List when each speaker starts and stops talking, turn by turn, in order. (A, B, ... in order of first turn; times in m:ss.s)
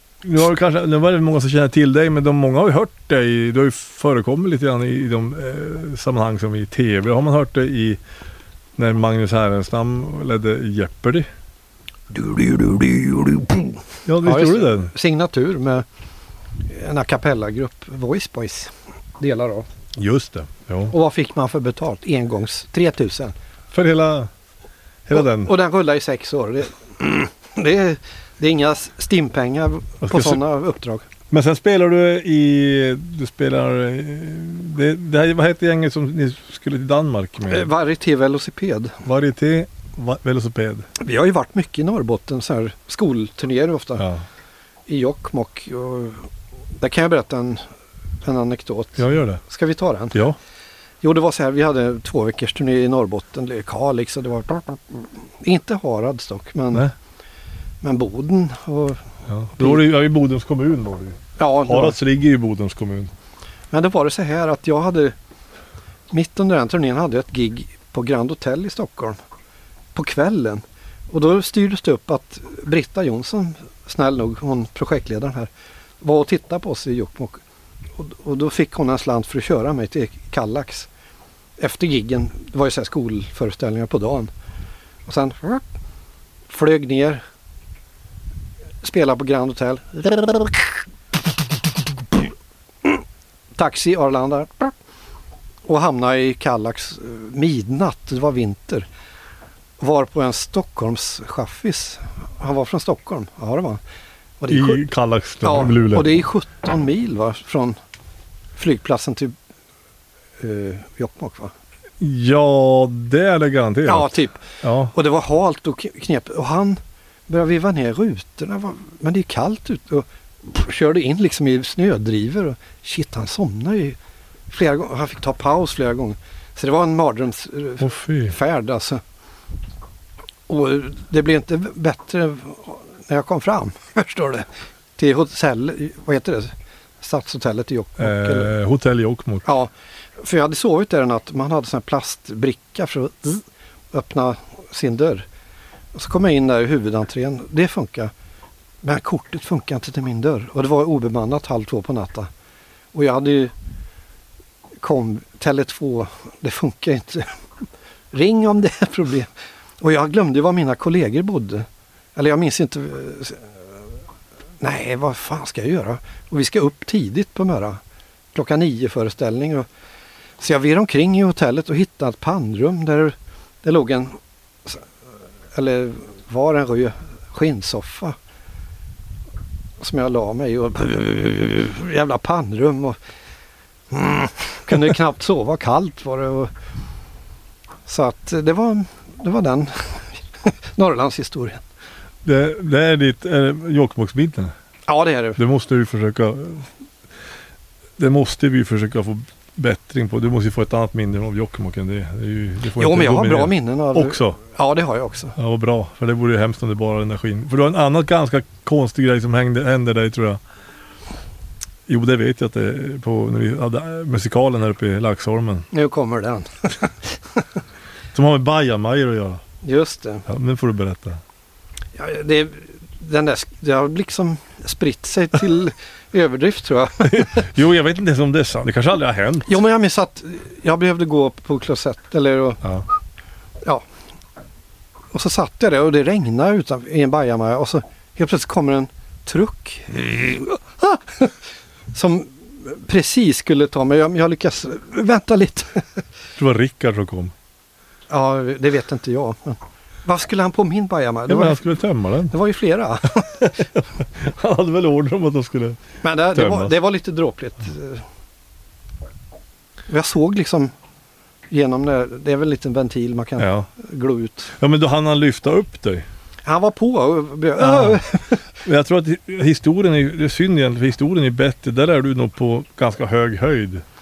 0:00.2-0:08.0 A
0:08.8-0:11.3 A
0:12.1-0:15.8 B
0:14.0-0:14.9 A
0:16.6-0:19.6 B
0:20.0-0:20.9 A
0:20.9-0:23.3 B
0:23.7-0:24.3 A
0:25.1-0:25.5 A
0:25.1-0:31.0 B
0:30.0-0:30.4 A
0:31.3-0:37.7 A
0:37.5-0:39.0 B
0:39.0-0:40.9 A
0:41.0-0:44.0 B
0:44.0-0:44.2 A
0:44.9-0:46.3 B
0:46.8-0:47.6 B
0:48.2-0:50.2 B
0:49.0-0:49.4 A
0:51.0-0:56.8 B
0:57.8-0:59.0 B
0:59.3-1:03.1 A
1:01.4-1:02.0 B
1:03.7-1:05.1 B
1:06.1-1:09.2 B
1:09.9-1:17.4 B
1:18.0-1:20.9 B
1:21.6-1:24.3 B
1:25.0-1:25.6 B
1:26.5-1:27.2 B
1:28.8-1:30.8 B
1:33.5-1:34.7 B
1:35.6-1:38.8 B
1:39.8-1:43.8 B
1:44.4-1:44.8 B
1:44.5-1:46.2 A
1:45.4-1:47.8 B
1:48.6-1:49.3 B
1:50.4-1:51.5 B
1:52.0-1:54.9 A
1:53.8-2:04.0 B
2:04.5-2:09.0 B
2:07.8-2:08.4 A
2:10.5-2:18.5 B
2:18.0-2:19.5 A
2:19.4-2:25.2 B
2:25.9-2:28.1 B
2:28.8-2:32.3 B
2:32.9-2:33.5 B
2:34.8-2:37.3 B
2:38.1-2:43.6 B
2:44.6-2:47.8 B
2:48.3-2:49.6 B
2:50.4-2:54.8 B
2:55.5-2:58.2 B
2:59.8-3:03.0 B
3:03.9-3:06.5 B
3:07.8-3:11.6 B
3:12.2-3:14.5 A
3:14.9-3:15.4 B
3:15.4-3:16.7 A
3:18.0-3:24.4 A
3:22.8-3:25.3 B
3:25.4-3:30.4 A
3:31.9-3:35.7 A
3:35.7-3:37.4 B
3:38.1-3:39.4 A
3:39.6-3:40.2 B
3:40.3-3:41.2 A
3:42.0-3:47.4 B
3:47.0-3:49.6 A
3:49.4-3:52.6 B
3:55.1-4:01.4 B
4:01.9-4:05.8 B
4:06.4-4:07.3 A
4:08.1-4:11.6 B
4:11.3-4:12.4 A
4:12.3-4:13.5 B
4:13.3-4:16.7 A
4:16.0-4:18.0 B
4:19.9-4:20.7 B
4:21.5-4:24.5 B
4:23.4-4:23.7 A
4:24.5-4:26.0 A
4:26.4-4:28.4 B
4:27.6-4:28.0 A
4:28.6-4:33.8 A